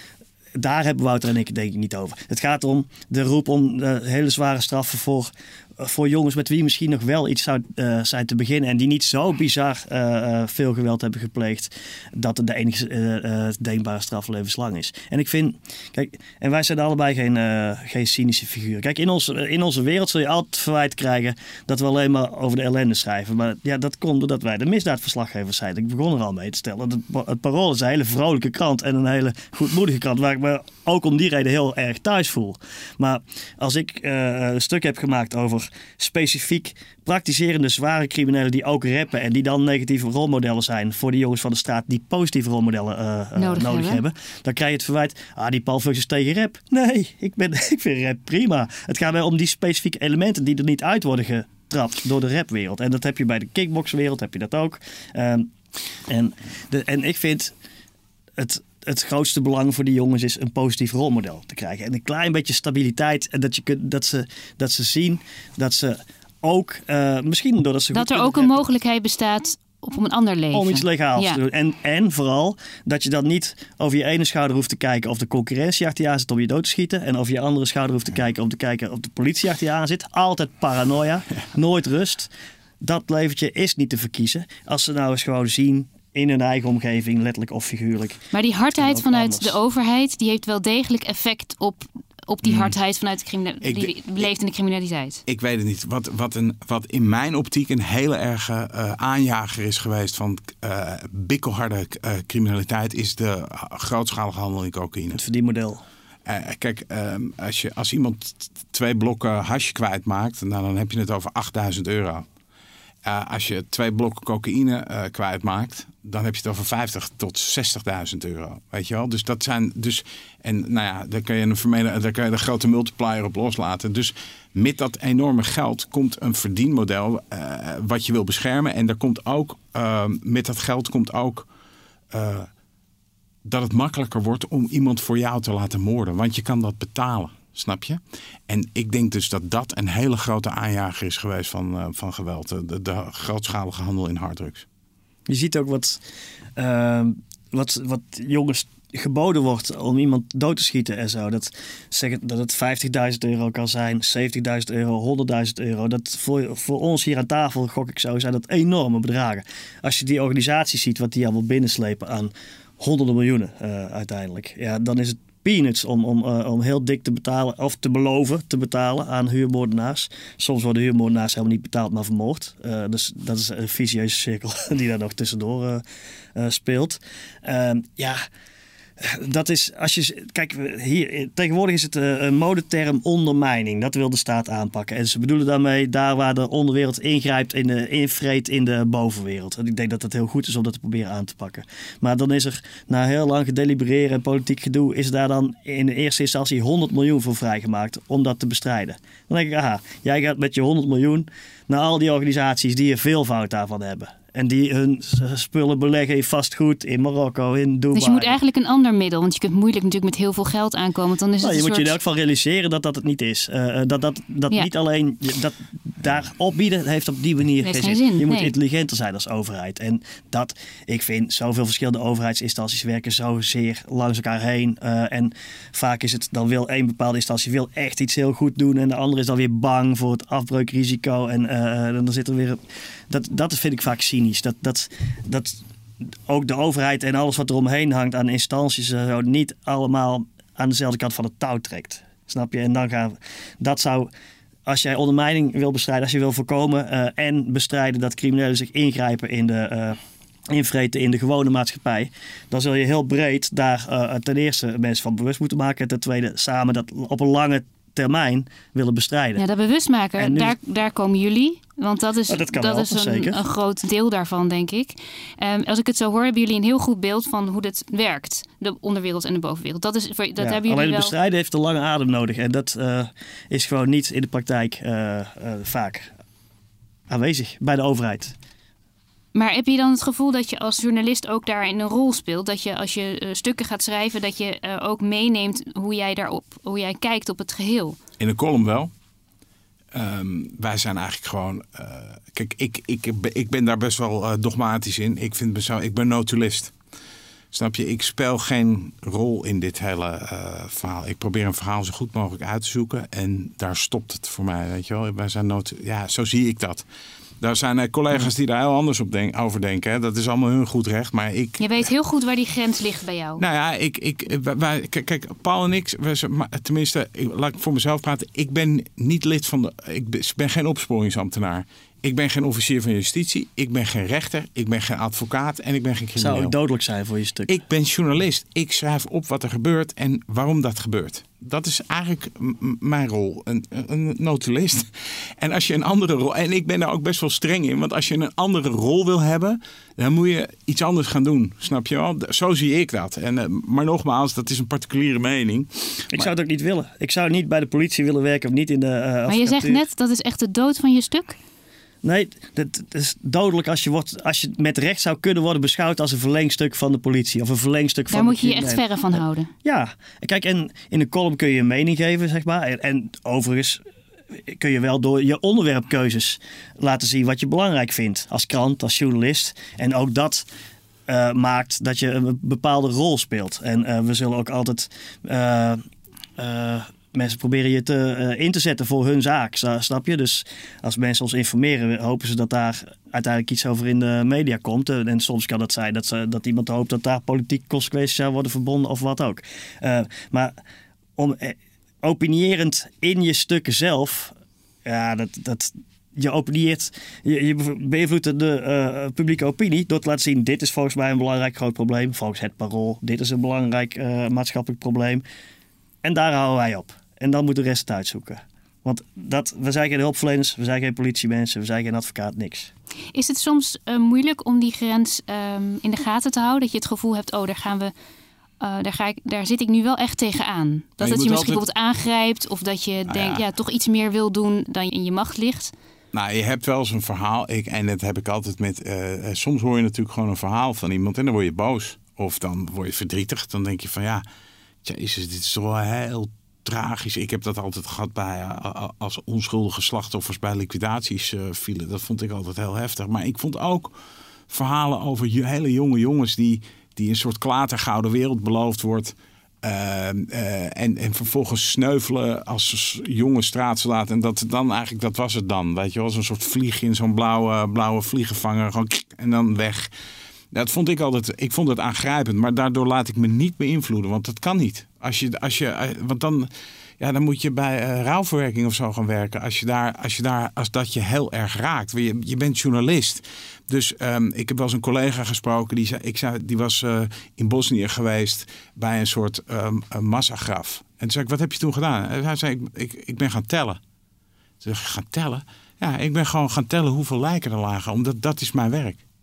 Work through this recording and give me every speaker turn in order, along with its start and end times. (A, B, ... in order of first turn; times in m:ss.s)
0:00.6-0:55.5 A
0:43.4-0:44.0 B
0:56.1-0:57.5 A
0:58.4-1:08.7 A
1:07.9-1:11.4 B
1:10.5-1:29.6 A
1:28.3-1:35.2 B
1:32.4-1:32.7 C
1:33.6-1:33.9 C
1:35.3-1:45.2 C
1:45.1-1:45.8 A
1:46.2-1:52.2 C
1:53.0-2:11.5 C
2:12.1-2:12.5 C
2:13.4-2:24.6 C
2:25.3-2:26.0 A
2:26.6-2:55.8 A
2:56.4-2:58.2 A
2:59.0-3:28.4 A
3:27.9-3:32.0 B
3:31.4-3:55.6 A
3:37.6-3:38.5 B
3:56.2-4:04.1 A
4:04.6-4:19.4 A
4:19.4-4:31.1 B
4:20.2-4:20.6 A
4:22.3-4:23.4 A
4:30.4-4:36.1 A
4:37.1-4:38.4 A
4:39.4-4:48.0 B
4:48.2-4:48.9 C
4:49.9-4:56.7 C
4:57.5-5:06.8 C
5:07.4-5:11.9 C
5:11.6-5:13.4 B
5:13.4-5:26.5 C
5:26.2-5:27.5 A
5:27.5-5:34.9 C
5:35.4-5:46.3 C
5:46.1-5:49.8 A
5:49.3-5:51.4 B
5:52.0-6:03.8 A
5:58.1-5:59.5 B
6:04.3-6:10.4 A
6:11.1-6:15.8 A
6:16.4-6:30.6 A
6:31.2-6:45.2 A
6:46.0-6:52.7 A
6:53.1-6:57.9 B
6:58.6-7:05.7 B
7:01.0-7:01.6 C
7:03.1-7:03.4 C
7:06.1-7:14.2 C
7:14.8-7:23.9 C
7:24.5-7:39.9 C
7:40.5-7:46.5 C
7:47.0-8:03.8 C
8:04.6-8:09.0 C